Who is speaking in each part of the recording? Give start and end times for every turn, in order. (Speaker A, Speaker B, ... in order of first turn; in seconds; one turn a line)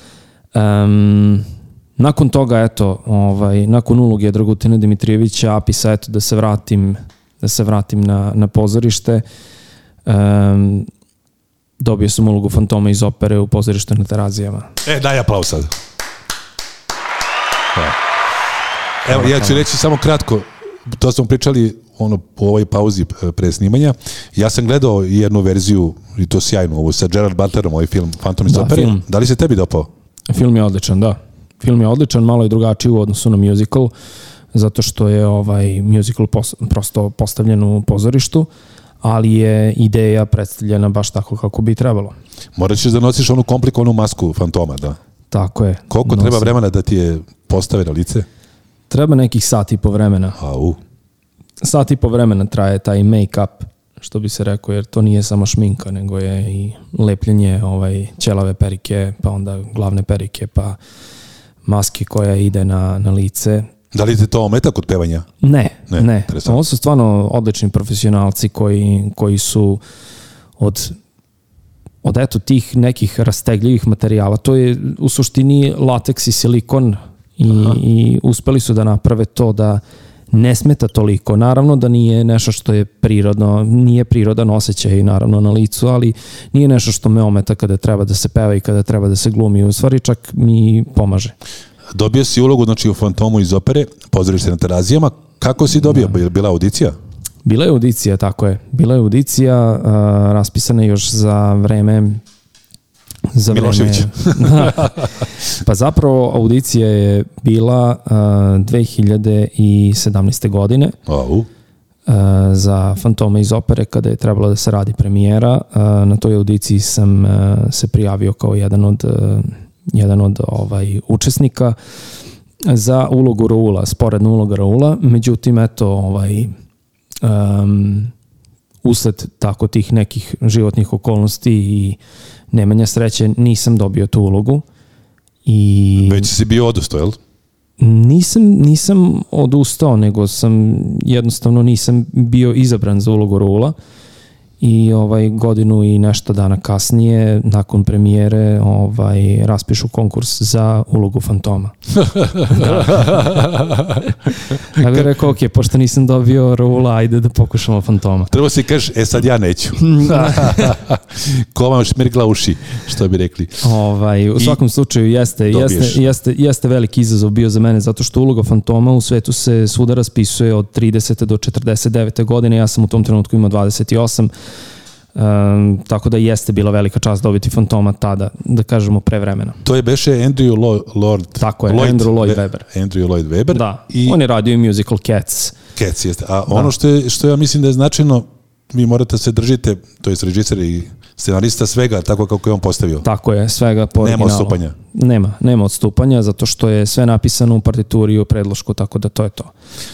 Speaker A: 0.5-9.2
Speaker A: 10.1-10.9
Speaker A: 11.8-14.7
Speaker B: 14.8-15.7
Speaker B: 19.0-29.9
Speaker A: 19.1-19.6
Speaker A: 28.5-29.0
Speaker A: 30.3-33.9
Speaker A: 34.5-38.5
Speaker A: 39.0-42.1
Speaker B: 42.5-45.0
Speaker A: 45.3-46.5
Speaker B: 45.9-48.2
Speaker A: 48.9-50.4
Speaker B: 50.4-50.8
Speaker A: 51.6-60.8
Speaker A: 61.6-63.7
Speaker B: 63.9-65.3
Speaker A: 65.4-69.8
Speaker B: 65.9-66.6
Speaker A: 70.6-71.0
Speaker A: 72.0-79.8
Speaker A: 80.3-91.3
Speaker B: 91.9-97.0
Speaker A: 97.4-102.2
Speaker A: 103.3-104.9
Speaker B: 103.5-105.0
Speaker A: 105.6-111.0
Speaker B: 111.0-111.5
Speaker A: 112.1-121.8
Speaker A: 122.6-126.5
Speaker A: 127.2-128.1
Speaker A: 128.8-132.0
Speaker A: 132.5-134.6
Speaker A: 135.4-136.3
Speaker B: 136.0-137.2
Speaker A: 137.8-143.7
Speaker A: 144.6-151.7
Speaker B: 151.9-154.1
Speaker A: 152.5-153.3
Speaker A: 154.7-158.3
Speaker B: 154.7-155.1
Speaker B: 158.3-163.6
Speaker A: 159.8-160.8
Speaker A: 163.6-174.3
Speaker B: 165.5-166.1
Speaker A: 175.1-179.6
Speaker B: 179.6-184.2
Speaker A: 181.4-182.7
Speaker A: 183.5-185.5
Speaker B: 185.8-193.1
Speaker A: 193.0-199.5
Speaker B: 194.0-194.7